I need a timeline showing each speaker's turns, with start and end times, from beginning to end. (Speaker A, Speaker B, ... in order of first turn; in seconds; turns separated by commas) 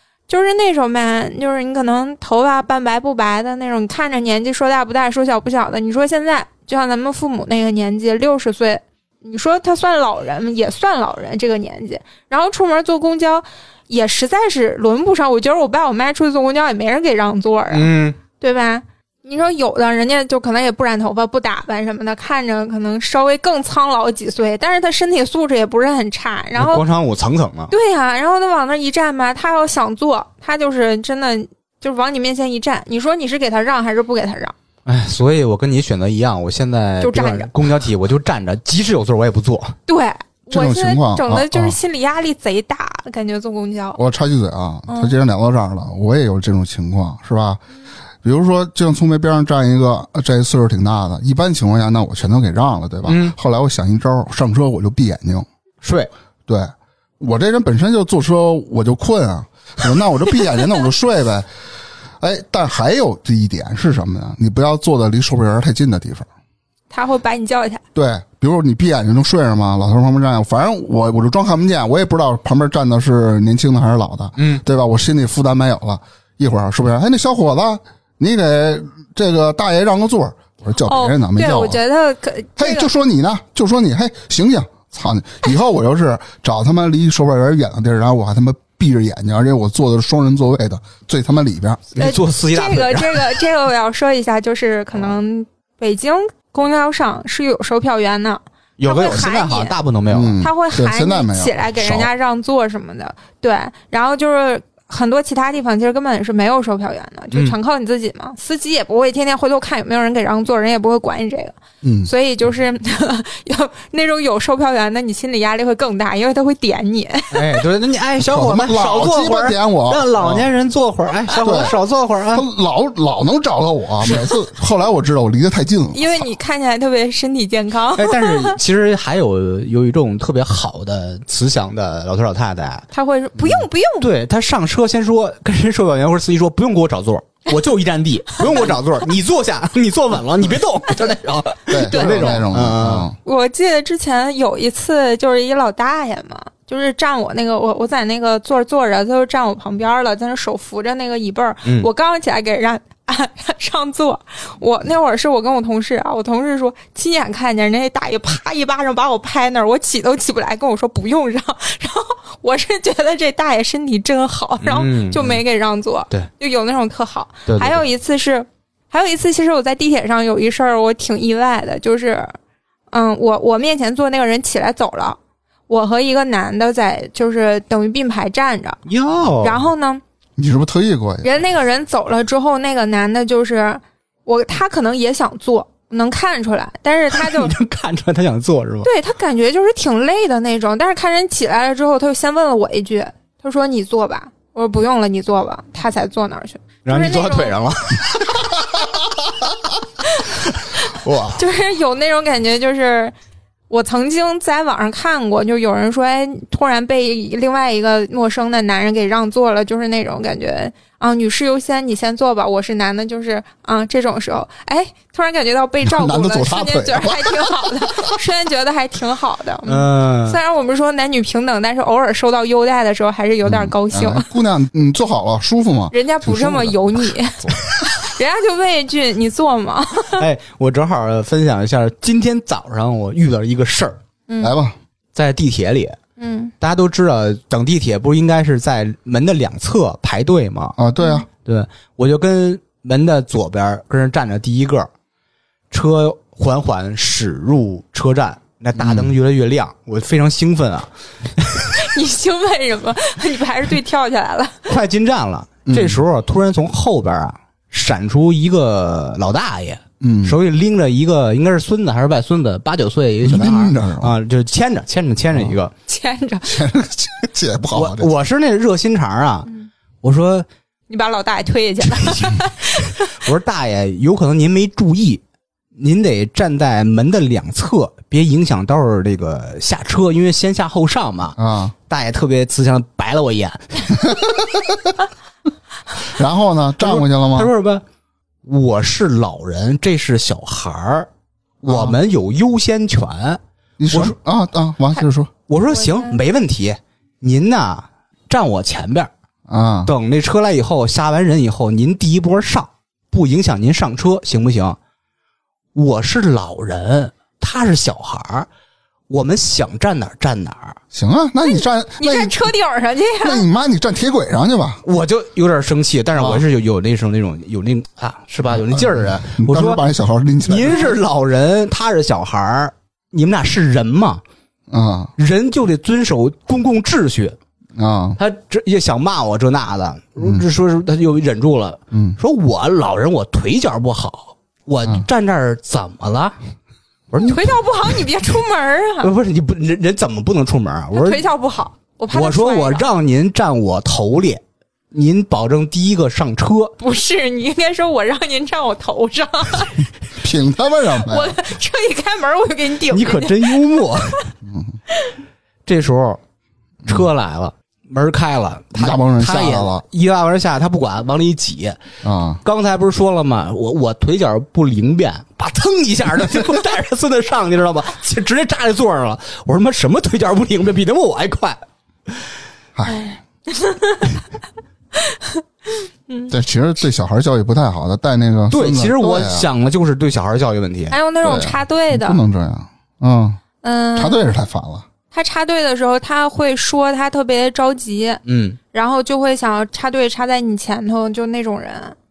Speaker A: 0.3-26.8, Speaker B: 17.7-18.2, Speaker B: 26.6-27.7, Speaker A: 27.7-34.5, Speaker B: 34.9-39.8, Speaker A: 37.0-37.5, Speaker A: 39.9-44.0, Speaker C: 40.5-41.8, Speaker C: 44.0-47.6, Speaker A: 44.9-45.2, Speaker C: 48.2-55.5, Speaker B: 53.1-53.4, Speaker B: 55.8-56.1, Speaker C: 56.5-61.5, Speaker C: 62.2-66.3, Speaker A: 66.9-67.8, Speaker C: 68.0-81.8, Speaker B: 74.4-74.6, Speaker A: 80.8-82.9, Speaker C: 82.6-91.9, Speaker B: 91.9-93.4, Speaker A: 92.0-99.8, Speaker B: 98.8-100.4, Speaker C: 100.1-102.1, Speaker A: 100.4-117.6, Speaker C: 111.8-112.1, Speaker B: 117.3-122.5, Speaker C: 118.2-120.5, Speaker C: 121.4-121.7, Speaker C: 122.3-126.1, Speaker A: 125.9-128.6, Speaker B: 128.0-132.9, Speaker A: 132.9-134.1, Speaker B: 134.0-143.1, Speaker C: 141.7-143.2, Speaker A: 141.9-142.4, Speaker A: 143.2-172.4, Speaker B: 164.6-165.4, Speaker B: 167.5-167.8, Speaker A: 172.9-175.2, Speaker A: 175.7-178.8, Speaker B: 178.9-179.7, Speaker A: 179.4-180.0, Speaker C: 180.4-181.3, Speaker A: 181.2-187.5, Speaker B: 187.1-188.9, Speaker A: 188.8-197.6, Speaker B: 196.9-199.3, Speaker B: 200.4-201.4, Speaker A: 201.4-203.1, Speaker A: 203.7-224.3, Speaker C: 215.8-218.0, Speaker B: 219.7-220.4, Speaker C: 223.5-226.8, Speaker A: 225.9-230.2, Speaker B: 230.2-234.0, Speaker A: 234.3-234.5, Speaker C: 234.4-234.8, Speaker B: 235.2-236.0, Speaker A: 236.2-236.5, Speaker B: 236.6-240.8, Speaker C: 240.8-241.3, Speaker A: 241.0-241.2, Speaker B: 241.4-244.9, Speaker B: 245.7-251.8, Speaker C: 248.8-249.1, Speaker A: 251.8-254.8, Speaker B: 254.7-265.7, Speaker C: 255.7-256.0, Speaker C: 260.0-260.4, Speaker C: 263.2-264.1, Speaker A: 265.9-266.6, Speaker C: 266.4-268.1, Speaker B: 267.7-269.5, Speaker B: 270.0-270.5, Speaker A: 270.9-273.2, Speaker B: 272.0-272.3, Speaker B: 272.9-275.2, Speaker B: 275.8-281.4, Speaker C: 281.4-281.8, Speaker B: 281.9-284.2, Speaker C: 284.1-284.8, Speaker C: 286.1-287.5, Speaker B: 286.8-287.8, Speaker B: 288.4-291.1, Speaker B: 291.6-293.4, Speaker C: 291.7-292.0, Speaker C: 293.8-295.3, Speaker B: 295.5-299.1, Speaker A: 295.7-296.2, Speaker C: 299.5-299.9, Speaker B: 299.9-304.8, Speaker B: 305.8-308.5, Speaker B: 309.1-310.8, Speaker C: 310.9-312.5, Speaker A: 311.5-313.4, Speaker C: 313.2-314.8, Speaker B: 314.9-319.8, Speaker C: 316.2-316.4, Speaker C: 318.6-321.0, Speaker B: 320.5-324.2, Speaker C: 324.7-325.1, Speaker B: 325.2-327.4, Speaker C: 327.8-328.2, Speaker B: 328.2-336.4, Speaker C: 330.2-330.4, Speaker C: 331.9-332.2, Speaker B: 337.1-337.5, Speaker A: 337.2-339.1, Speaker B: 339.0-341.2, Speaker A: 340.9-342.9, Speaker B: 342.1-346.8, Speaker A: 346.8-349.9, Speaker C: 350.2-351.4, Speaker A: 351.0-354.2, Speaker B: 352.9-354.2, Speaker C: 354.4-354.8, Speaker B: 355.7-356.2, Speaker B: 356.9-361.8, Speaker C: 358.8-359.8, Speaker C: 362.0-362.4, Speaker B: 362.4-372.2, Speaker C: 372.8-373.1, Speaker A: 373.5-374.2, Speaker A: 375.1-375.4, Speaker A: 376.1-376.3, Speaker C: 376.3-379.5, Speaker B: 378.5-381.0, Speaker A: 380.9-382.2, Speaker C: 381.2-383.4, Speaker A: 383.6-384.2, Speaker C: 384.0-384.9, Speaker A: 385.1-392.0, Speaker B: 388.3-388.6